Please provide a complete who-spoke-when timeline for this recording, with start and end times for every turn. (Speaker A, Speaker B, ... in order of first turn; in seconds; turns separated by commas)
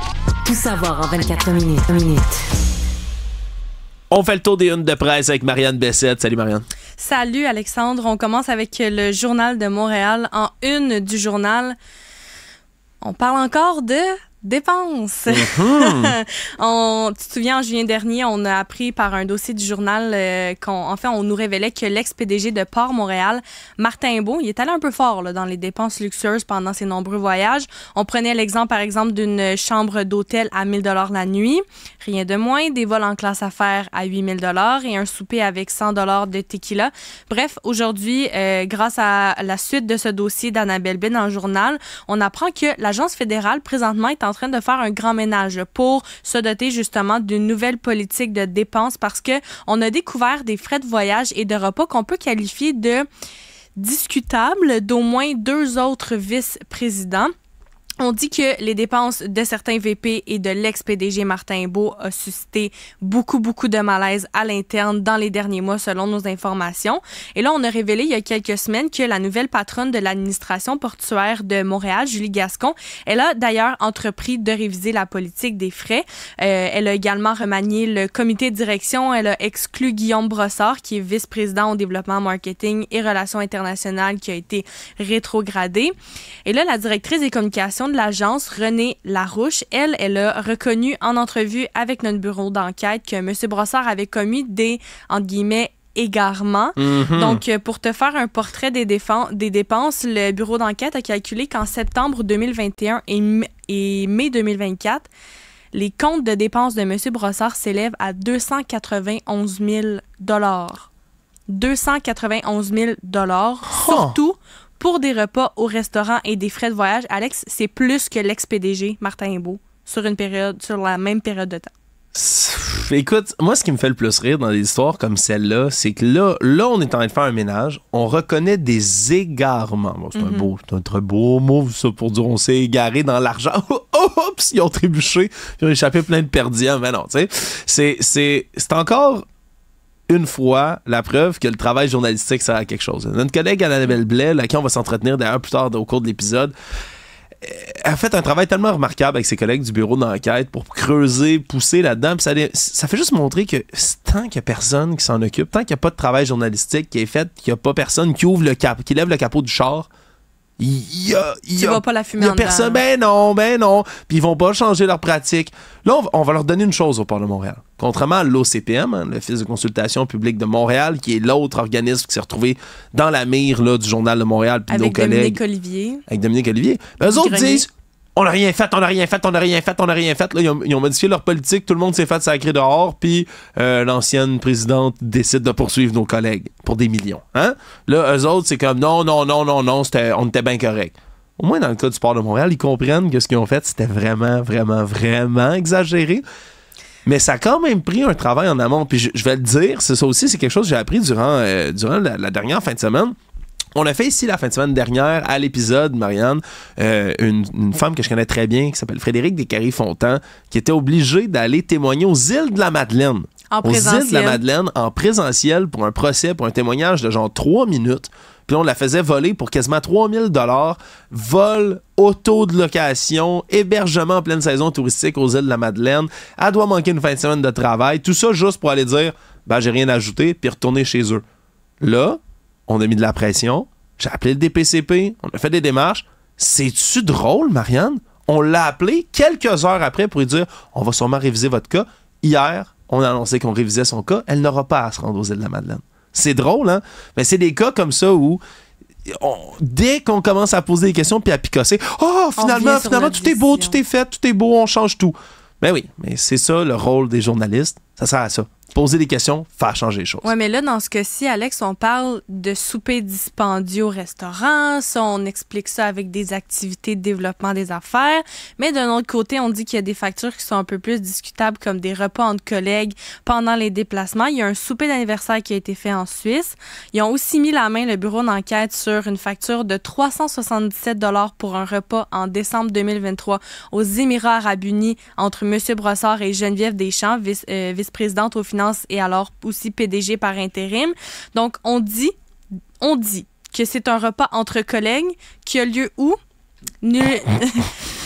Speaker A: 0.4-2.4, Speaker B: 4.1-6.7, Speaker C: 7.0-11.8, Speaker C: 13.0-53.0, Speaker B: 15.3-16.1, Speaker C: 53.8-57.3, Speaker C: 58.0-85.9, Speaker C: 86.4-105.1, Speaker B: 96.8-97.4, Speaker C: 105.7-110.9, Speaker C: 111.5-121.7, Speaker B: 113.7-114.2, Speaker B: 122.1-139.2, Speaker C: 130.1-130.5, Speaker B: 140.1-146.5, Speaker B: 147.4-159.9, Speaker B: 160.6-175.4, Speaker C: 161.6-162.8, Speaker C: 174.7-176.0, Speaker B: 176.1-196.2, Speaker C: 177.0-177.7, Speaker B: 197.1-203.1, Speaker B: 203.7-231.2, Speaker C: 213.5-214.4, Speaker B: 231.8-248.4, Speaker B: 249.1-260.3, Speaker C: 252.4-253.8, Speaker C: 260.2-292.1, Speaker C: 292.8-296.2, Speaker C: 296.8-297.8